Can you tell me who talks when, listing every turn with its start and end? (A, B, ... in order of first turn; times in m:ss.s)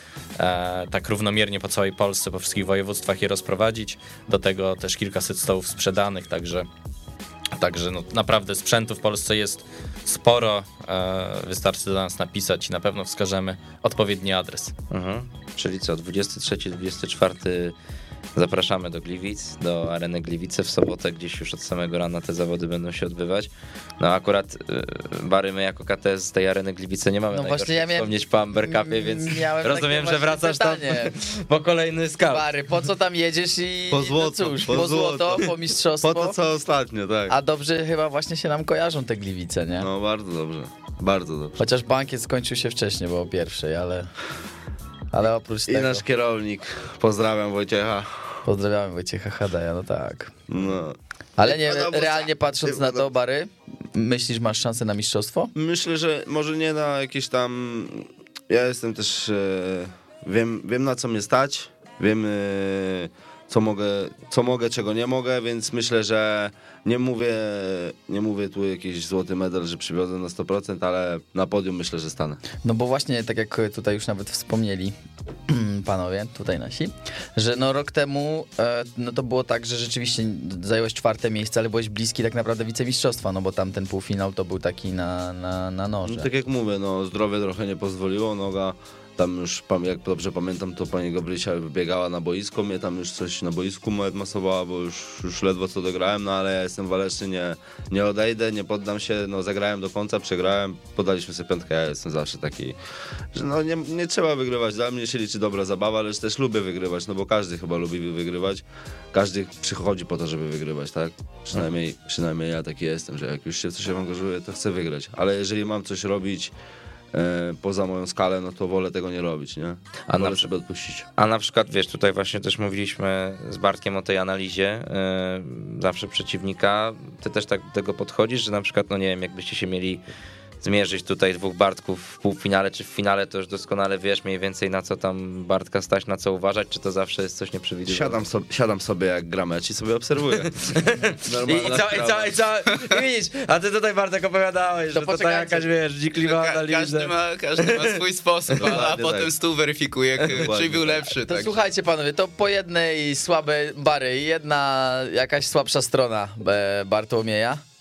0:00.4-0:06.7 A
0:07.6-0:14.7 A
0:14.9-0:17.7 B
0:18.3-0:32.4 B
0:27.3-0:31.2 C
0:32.3-0:36.4 C
0:33.9-0:37.3 D
0:37.3-0:39.9 C
0:39.8-0:41.6 D
0:41.6-0:44.1 C
0:45.1-0:46.0 C
0:45.7-0:48.2 D
0:48.4-0:50.3 C
0:50.5-0:53.0 D
0:51.4-0:55.5 C
0:55.5-1:12.4 D
1:12.6-1:15.0 C
1:15.5-1:26.3 C
1:26.0-1:42.8 D
1:43.3-1:56.5 D
1:57.1-2:01.0 D
2:00.1-2:00.5 B
2:01.2-2:10.0 B
2:10.6-2:18.3 B
2:17.9-2:20.5 D
2:20.5-2:28.0 B
2:21.2-2:22.3 D
2:24.9-2:25.7 C
2:26.2-2:31.6 E
2:28.6-2:29.3 D
2:30.4-2:31.0 D
2:31.2-2:37.6 C